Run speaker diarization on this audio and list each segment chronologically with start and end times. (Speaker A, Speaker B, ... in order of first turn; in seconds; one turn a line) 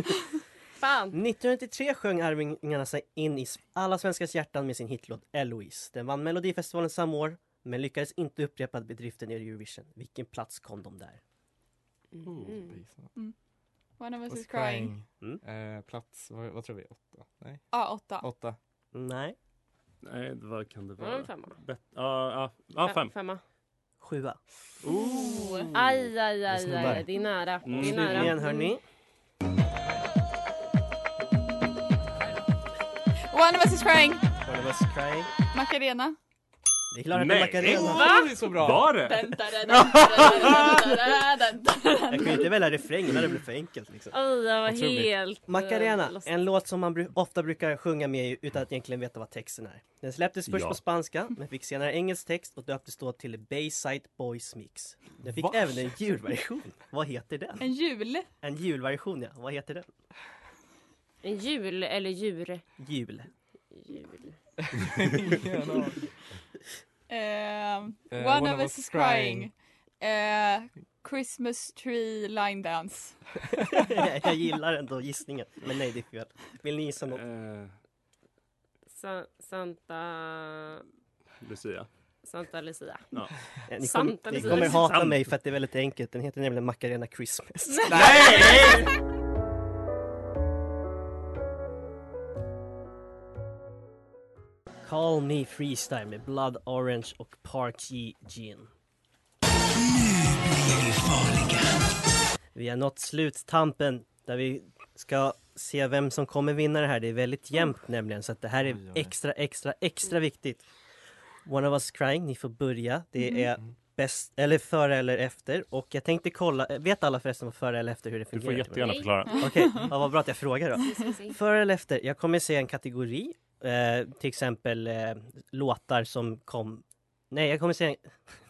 Speaker A: 0.8-1.2
Speaker B: 1.1-11.2
Speaker A: 12.2-12.8
Speaker C: 12.2-12.6
Speaker D: 12.5-13.1
Speaker E: 14.0-14.9
Speaker D: 14.3-18.6
Speaker E: 17.7-18.3
Speaker B: 18.9-19.4
Speaker C: 20.0-23.1
Speaker A: 21.0-21.6
Speaker A: 22.8-23.4
Speaker B: 24.0-24.4
Speaker C: 24.8-26.1
Speaker E: 24.9-25.7
Speaker A: 25.2-28.8
Speaker D: 26.5-27.1
Speaker C: 27.6-28.3
Speaker B: 27.7-28.8
Speaker E: 33.3-34.2
Speaker B: 34.5-35.3
Speaker E: 35.5-36.2
Speaker B: 36.9-38.1
Speaker C: 37.1-38.0
Speaker D: 37.7-38.9
Speaker A: 37.8-38.5
Speaker C: 38.5-40.8
Speaker E: 38.9-42.6
Speaker B: 42.1-44.2
Speaker A: 44.1-46.4
Speaker D: 44.7-45.1
Speaker B: 45.5-57.7
Speaker C: 50.5-50.8
Speaker D: 55.3-55.9
Speaker E: 57.6-58.3
Speaker B: 58.4-59.9
Speaker A: 61.2-62.6
Speaker B: 62.8-63.3
Speaker A: 63.7-64.4
Speaker D: 64.7-66.0
Speaker E: 67.1-73.2
Speaker D: 68.1-69.5
Speaker B: 73.8-77.2
Speaker C: 77.1-77.7
Speaker A: 78.9-80.8
Speaker C: 81.4-81.9
Speaker A: 82.2-83.2
Speaker B: 83.7-88.9
Speaker A: 83.8-85.1
Speaker C: 84.7-85.1
Speaker D: 87.9-88.8
Speaker C: 88.1-88.7
Speaker B: 94.8-98.7
Speaker B: 102.5-110.7
Speaker D: 108.7-109.2
Speaker B: 111.5-128.1
Speaker C: 118.3-119.8
Speaker A: 118.8-119.3
Speaker A: 120.8-121.4